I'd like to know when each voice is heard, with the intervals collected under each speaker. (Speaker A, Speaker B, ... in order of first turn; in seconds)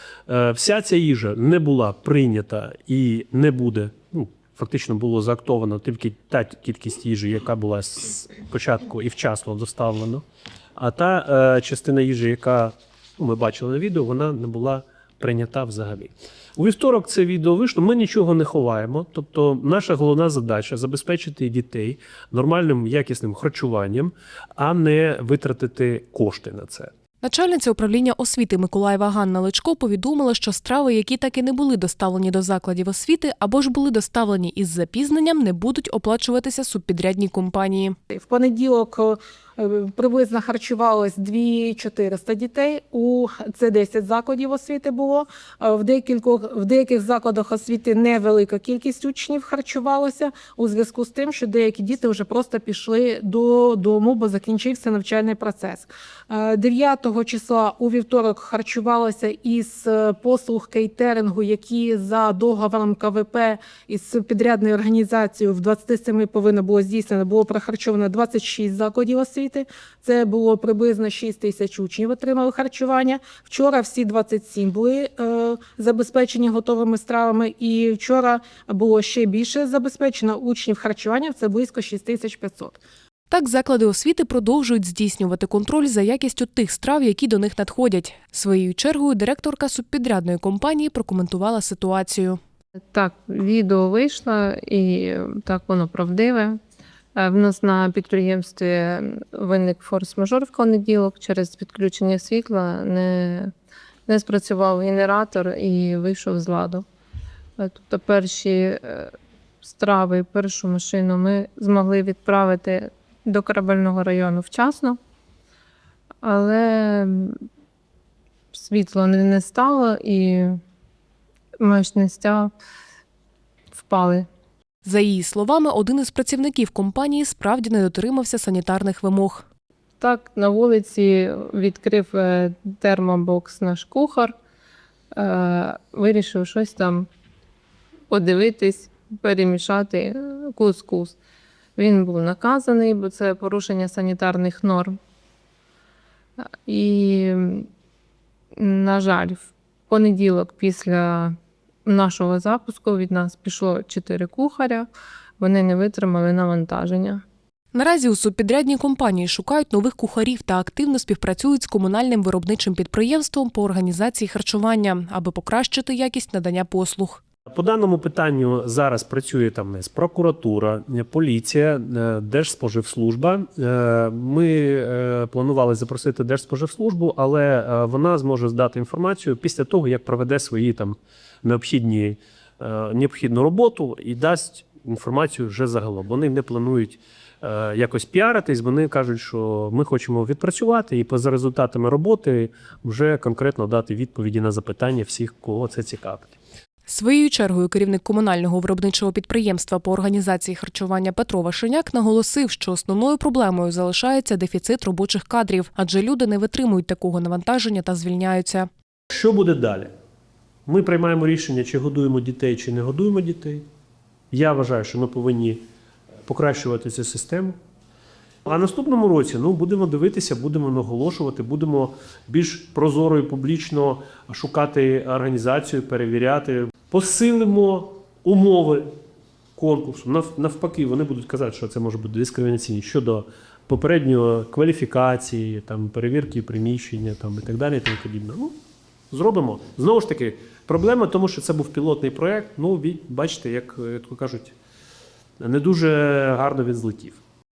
Speaker A: 0.3-10.2, 10.8-26.9, 167.5-196.4, 209.1-209.9, 210.7-213.7, 214.3-215.6, 216.3-217.6, 218.4-228.9, 229.6-238.5, 239.1-244.6, 245.4-247.2
Speaker B: 27.2-38.0, 83.3-92.4, 124.8-129.5, 157.7-167.2, 196.9-208.7
Speaker C: 38.1-82.8
Speaker D: 93.0-96.6, 97.2-103.5, 104.1-106.9, 107.6-115.0, 116.2-117.4, 118.5-120.6, 121.6-122.5, 123.8-124.3, 130.0-134.3, 135.2-137.1, 138.1-141.2, 141.8-145.0, 146.7-147.7, 148.6-154.9, 155.4-157.2